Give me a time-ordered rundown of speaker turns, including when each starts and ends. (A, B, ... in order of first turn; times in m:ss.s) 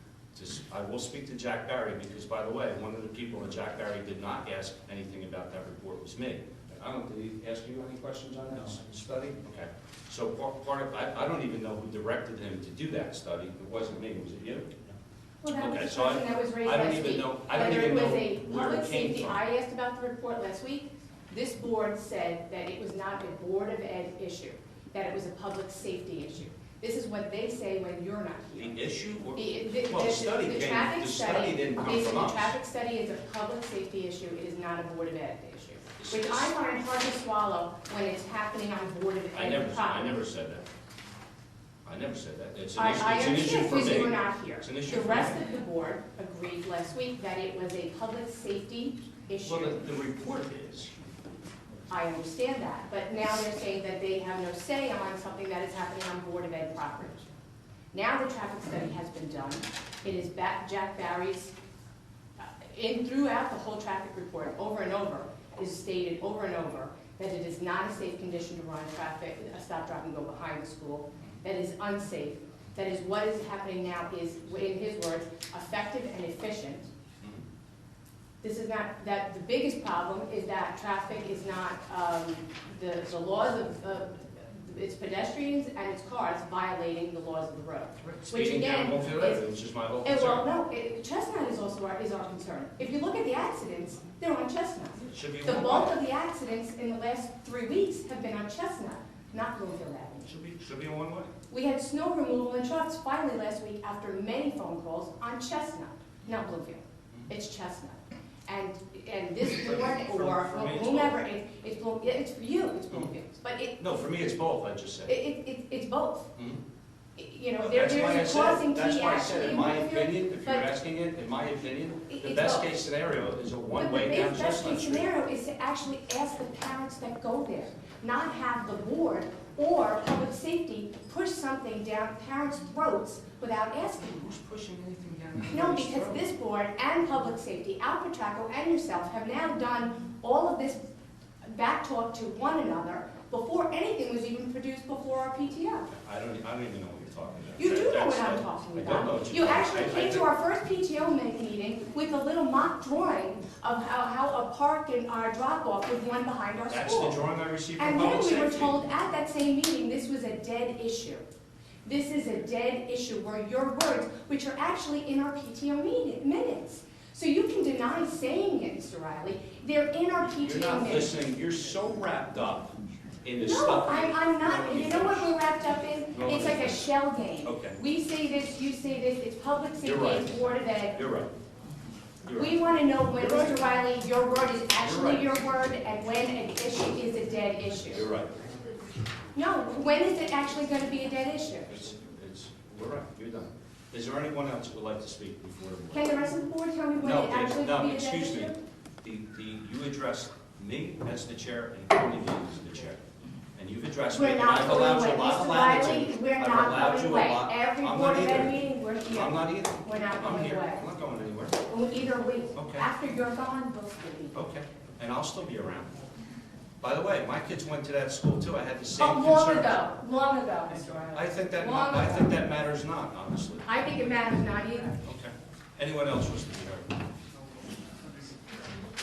0:00.3-0:14.9 A
0:15.4-0:28.8 B
0:15.5-0:19.4 A
0:28.6-0:32.6 A
0:29.4-0:40.2 B
0:36.0-0:36.5 A
0:39.3-0:40.7 A
0:41.8-0:45.4 A
0:42.8-0:49.8 B
0:49.4-0:50.9 A
0:51.9-0:57.3 B
0:57.9-1:01.6 B
1:02.4-1:16.9 B
1:18.4-1:29.4 B
1:28.0-1:30.5 A
1:30.0-1:40.3 B
1:35.0-1:36.0 A
1:40.2-1:41.3 A
1:41.5-1:53.8 B
1:49.5-1:51.2 A
1:53.8-1:55.1 A
1:55.1-1:56.3 B
1:56.4-1:56.6 A
1:57.2-2:00.7 B
1:57.6-2:05.1 A
2:02.1-2:02.7 B
2:03.7-2:14.4 B
2:14.2-2:16.3 A
2:15.5-2:20.8 B
2:21.4-2:25.9 B
2:25.9-2:30.3 A
2:27.6-2:37.2 B
2:36.7-2:38.8 A
2:37.8-2:41.2 B
2:41.8-2:51.2 B
2:50.4-2:55.4 A
2:53.4-3:01.0 B
2:56.1-2:56.9 A
2:57.4-2:57.8 A
2:59.8-3:01.3 A
3:02.3-3:02.6 A
3:02.4-3:08.1 B
3:03.2-3:03.6 A
3:04.8-3:05.3 A
3:07.9-3:08.3 A
3:09.3-3:11.8 B
3:11.7-3:16.1 A
3:15.9-3:18.6 B
3:17.0-3:23.0 A
3:23.6-3:31.6 A
3:24.1-3:30.8 B
3:31.7-3:34.4 B
3:32.6-3:32.9 A
3:34.3-3:35.9 A
3:36.8-3:39.8 A
3:39.0-3:42.4 B
3:41.1-3:43.7 A
3:43.6-3:45.0 B
3:45.0-3:47.0 A